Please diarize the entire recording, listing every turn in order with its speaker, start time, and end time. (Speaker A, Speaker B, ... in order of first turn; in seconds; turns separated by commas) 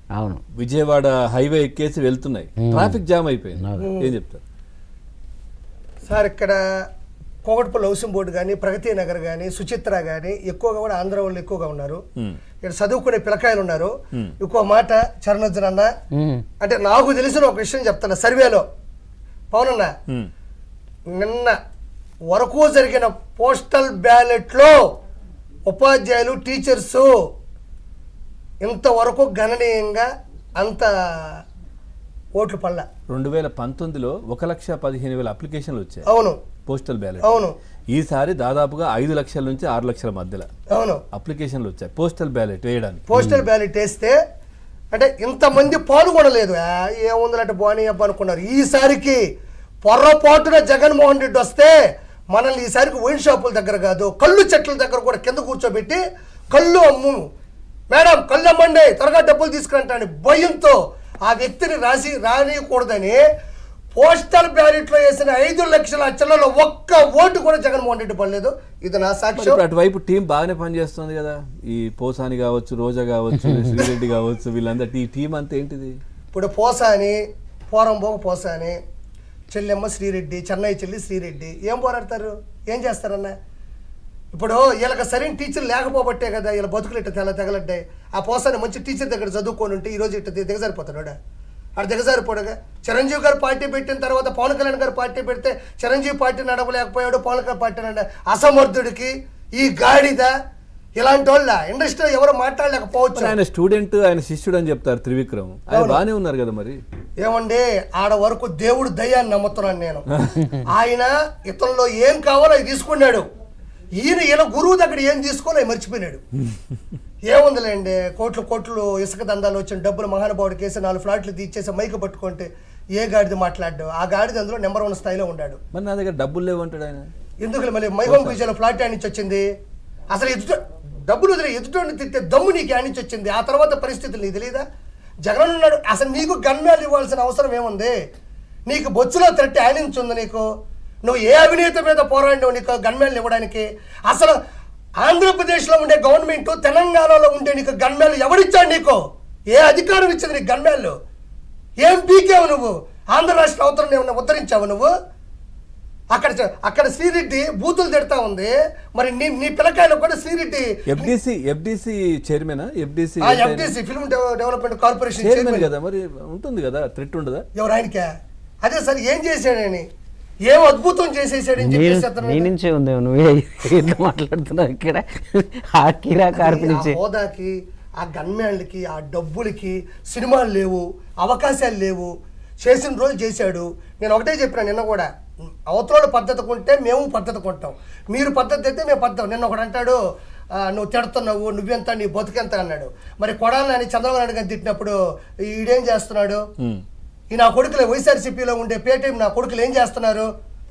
Speaker A: 0.2-0.4, Speaker B: 0.6-4.4, Speaker A: 2.6-3.0, Speaker C: 3.8-4.2, Speaker C: 6.1-6.6, Speaker C: 7.5-12.0, Speaker C: 12.6-15.9, Speaker A: 16.1-16.4, Speaker C: 16.6-18.6, Speaker C: 19.5-19.9, Speaker C: 21.1-21.6, Speaker C: 22.3-24.8, Speaker C: 25.7-27.1, Speaker C: 28.6-31.4, Speaker C: 32.4-32.9, Speaker B: 33.1-36.0, Speaker C: 36.1-36.4, Speaker B: 36.7-40.5, Speaker C: 37.2-37.5, Speaker C: 40.7-41.0, Speaker B: 41.1-43.4, Speaker C: 43.1-44.2, Speaker C: 44.9-49.2, Speaker C: 49.9-51.8, Speaker C: 52.3-56.0, Speaker C: 56.5-57.2, Speaker C: 57.9-63.2, Speaker C: 64.0-69.6, Speaker B: 69.4-76.0, Speaker C: 76.3-77.2, Speaker C: 77.7-78.8, Speaker C: 79.5-83.3, Speaker C: 84.3-91.2, Speaker C: 91.8-100.3, Speaker C: 101.0-103.4, Speaker B: 103.1-106.8, Speaker C: 105.7-106.0, Speaker C: 107.2-110.0, Speaker B: 110.1-110.5, Speaker C: 110.7-113.2, Speaker C: 114.0-116.2, Speaker C: 117.3-125.6, Speaker B: 125.7-127.1, Speaker C: 127.4-129.5, Speaker B: 128.1-128.4, Speaker C: 130.1-134.7, Speaker C: 135.2-137.9, Speaker C: 138.7-140.5, Speaker C: 141.0-144.4, Speaker C: 145.0-149.0, Speaker C: 149.5-150.9, Speaker C: 151.8-154.9, Speaker C: 156.1-161.1, Speaker B: 160.9-163.8, Speaker C: 163.2-165.7, Speaker B: 165.2-167.4, Speaker C: 167.6-168.1, Speaker C: 168.6-169.9, Speaker C: 170.4-172.5, Speaker A: 171.6-177.0, Speaker C: 176.3-182.1, Speaker C: 182.6-185.1, Speaker C: 185.7-190.0, Speaker C: 190.6-195.0, Speaker C: 195.5-196.4, Speaker C: 197.3-200.3